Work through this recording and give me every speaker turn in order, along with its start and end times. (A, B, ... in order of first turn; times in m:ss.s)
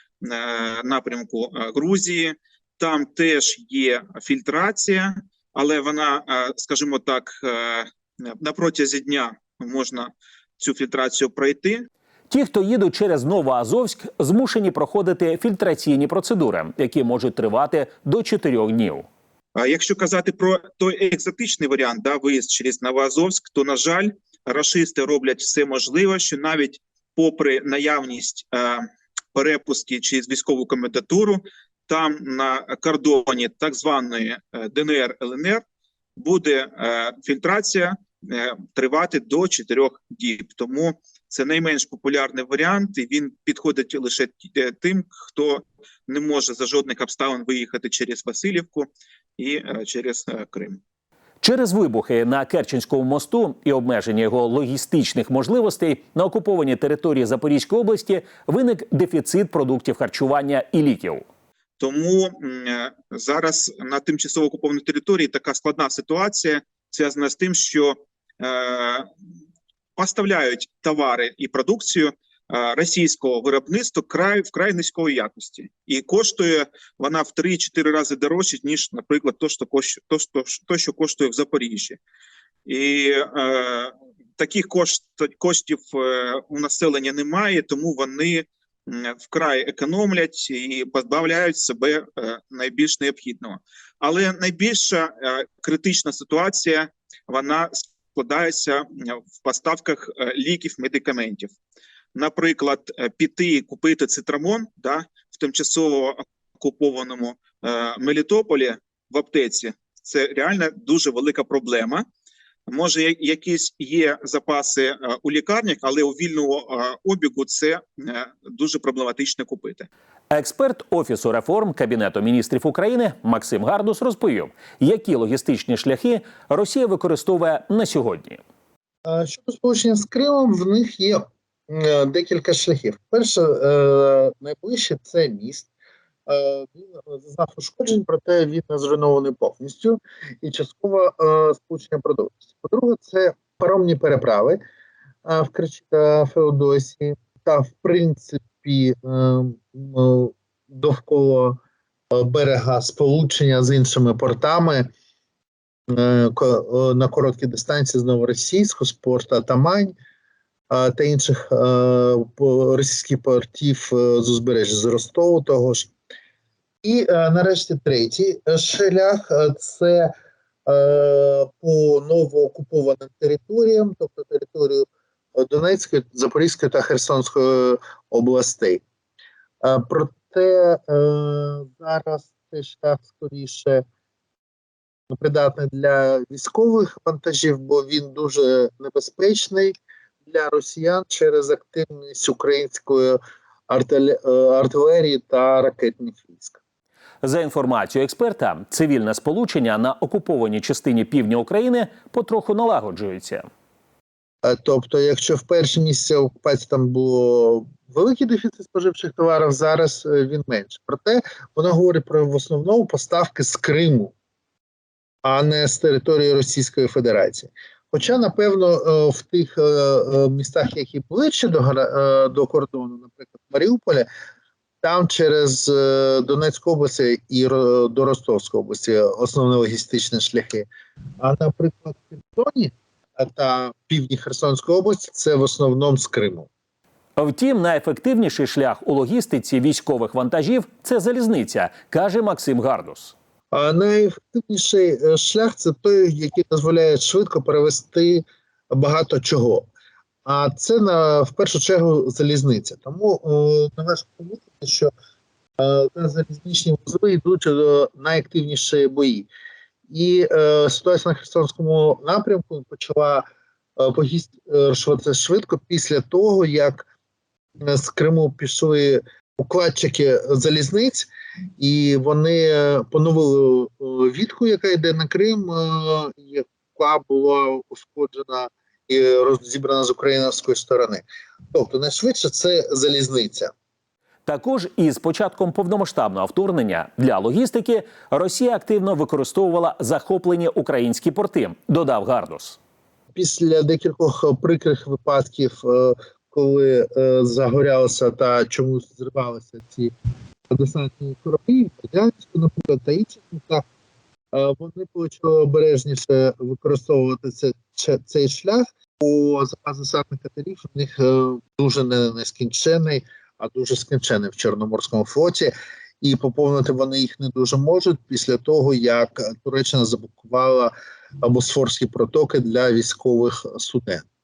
0:00.2-0:11.9 A
0:12.3-0:19.1 B
0:19.6-0:35.6 A
0:36.2-0:50.8 A
0:51.4-1:01.2 B
1:01.8-1:09.1 A
1:10.0-1:22.0 A
1:22.7-1:41.5 A
1:42.2-1:52.0 A
1:52.7-1:59.9 A
2:00.3-2:08.4 B
2:09.1-2:15.7 C
2:16.3-2:24.6 C
2:25.2-2:31.6 C
2:32.1-2:34.9 C
2:35.9-2:40.0 C
2:40.7-2:45.9 C
2:46.8-2:50.1 C
2:50.7-2:54.8 C
2:55.4-2:58.8 C
2:59.6-3:03.8 C
3:05.1-3:09.7 C
3:10.3-3:13.2 C
3:13.7-3:16.6 C
3:17.2-3:23.5 B
3:24.4-3:34.1 C
3:35.2-3:44.1 C
3:44.8-3:50.7 C
3:51.2-3:56.5 C
3:57.2-4:03.1 B
4:03.5-4:09.7 C
4:10.2-4:14.9 C
4:15.6-4:19.3 C
4:19.9-4:23.2 C
4:23.8-4:26.9 C
4:27.6-4:43.5 C
4:44.3-4:52.6 B
4:53.1-4:59.9 C
5:00.5-5:03.6 C
5:04.3-5:20.7 C
5:21.2-5:24.0 C